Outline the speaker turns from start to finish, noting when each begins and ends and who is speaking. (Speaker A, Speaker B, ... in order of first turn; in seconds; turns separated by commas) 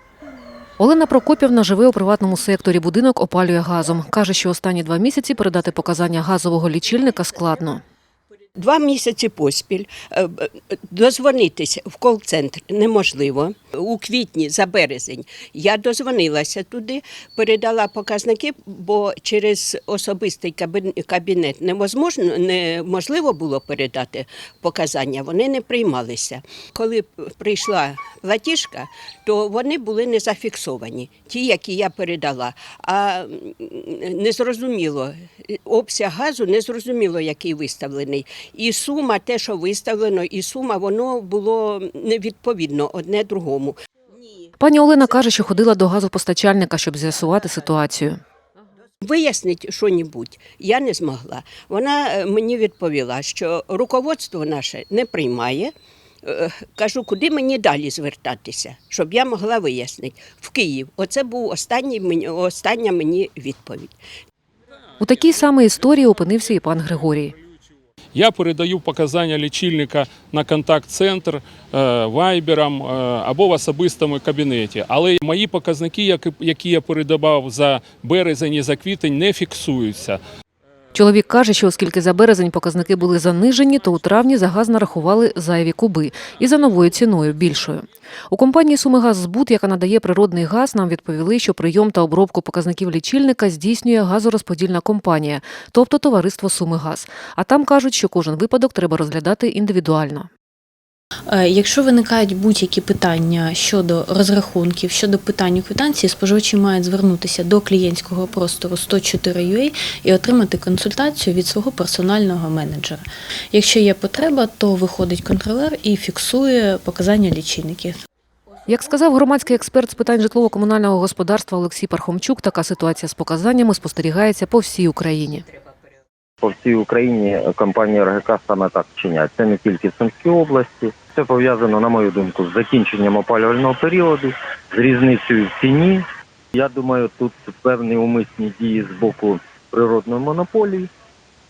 Speaker A: 0.8-7.8, Speaker B: 8.6-43.8, Speaker A: 44.6-48.2, Speaker B: 49.0-55.7, Speaker B: 56.2-63.9, Speaker A: 65.0-67.3, Speaker C: 68.1-80.2, Speaker A: 80.9-100.3, Speaker D: 101.3-118.0, Speaker A: 118.7-125.4, Speaker E: 126.4-136.0, Speaker E: 136.5-140.9